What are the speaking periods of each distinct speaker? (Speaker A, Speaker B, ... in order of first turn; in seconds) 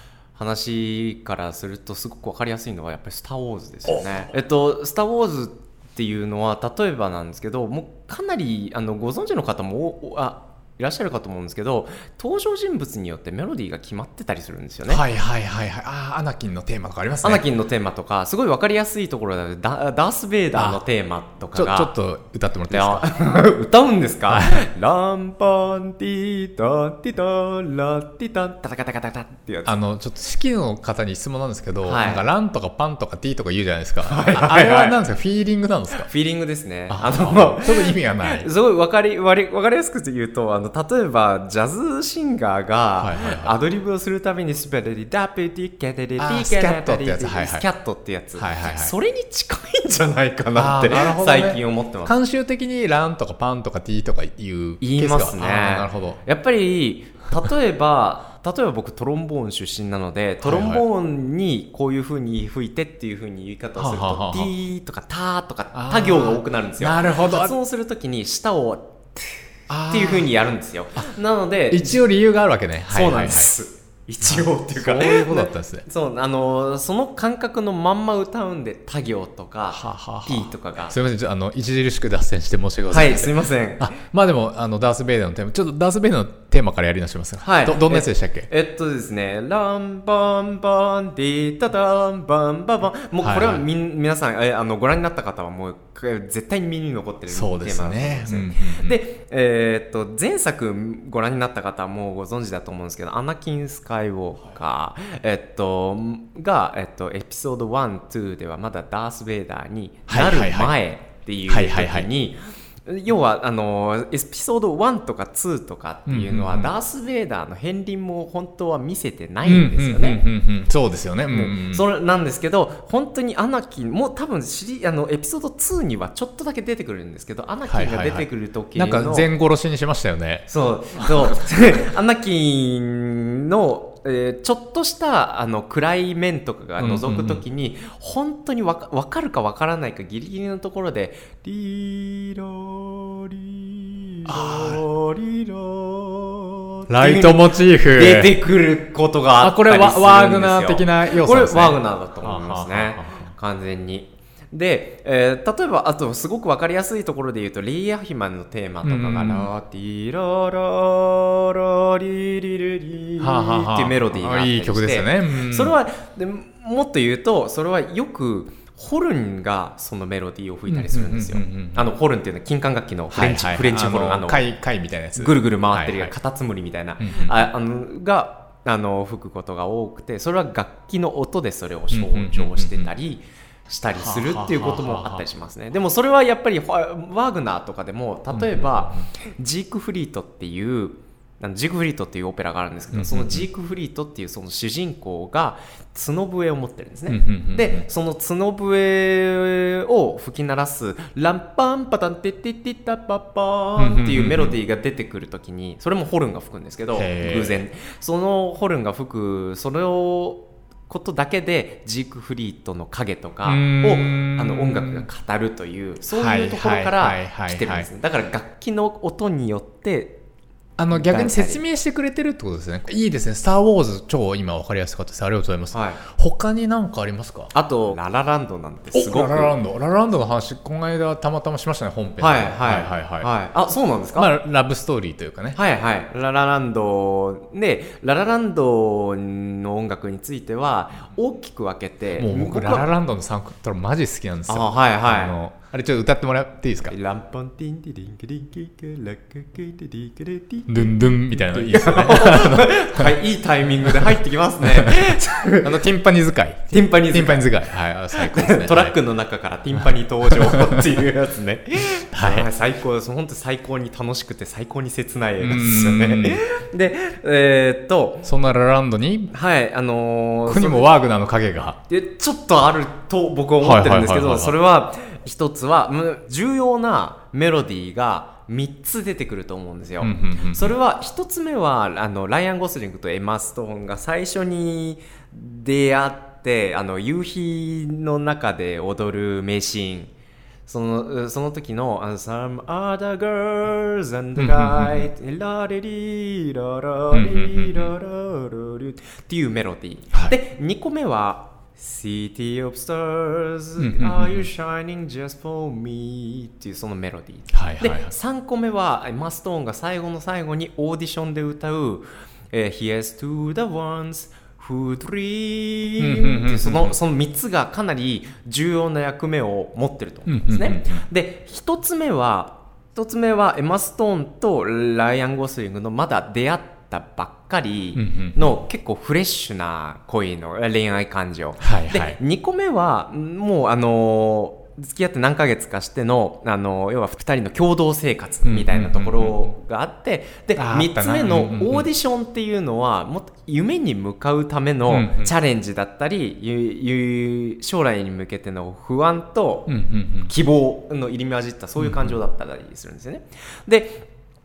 Speaker A: 0.3-15.0, 17.2-21.9, 22.7-29.8, 31.8-32.2, 34.1-35.0, 36.1-52.1, 54.8-72.0, 72.9-81.0, 82.9-83.9, 87.4-120.2, 121.3-129.3, 130.5-174.5, 175.2-220.2, 220.9-221.6, 225.7-226.0, 227.5-229.6, 232.2-234.3, 235.6-242.9, 244.5-245.3, 246.9-255.8, 256.7-268.3, 269.3-270.9, 271.9-290.1, 290.7-349.8, 350.3-354.1
Speaker B: 14.9-17.4, 20.6-20.8, 21.5-23.3, 24.3-24.7, 29.7-36.1, 36.9-38.5, 43.0-43.6, 46.2-47.7, 48.4-48.9, 50.5-56.2, 60.4-60.8, 63.8-64.5, 65.7-67.6, 69.7-70.3, 71.7-73.5, 74.2-75.9, 79.7-88.5, 93.2-93.7, 97.3-99.0, 110.1-110.8, 111.5-112.1, 116.1-116.7, 119.5-121.8, 127.7-131.4, 136.8-137.4, 144.2-144.8, 146.9-148.4, 149.4-153.3, 158.8-159.5, 163.2-165.8, 170.7-171.9, 173.1-176.1, 177.0-177.5, 181.9-182.9, 183.9-185.2, 188.3-189.1, 192.9-193.4, 197.1-197.8, 203.8-204.6, 206.9-207.7, 213.4-215.1, 216.1-217.9, 220.8-227.5, 228.9-233.3, 234.2-235.6, 242.2-246.9, 250.7-253.1, 254.6-259.0, 260.3-260.8, 262.1-262.5, 265.4-266.4, 268.2-269.3, 270.5-271.8, 273.6-274.6, 280.0-280.8, 294.4-295.1, 297.1-297.9, 303.8-304.5, 307.5-308.1, 316.0-317.0, 320.3-321.1, 327.9-328.6, 331.6-332.2, 338.4-339.5, 340.6-341.9, 344.9-345.3, 349.7-350.3, 351.8-352.2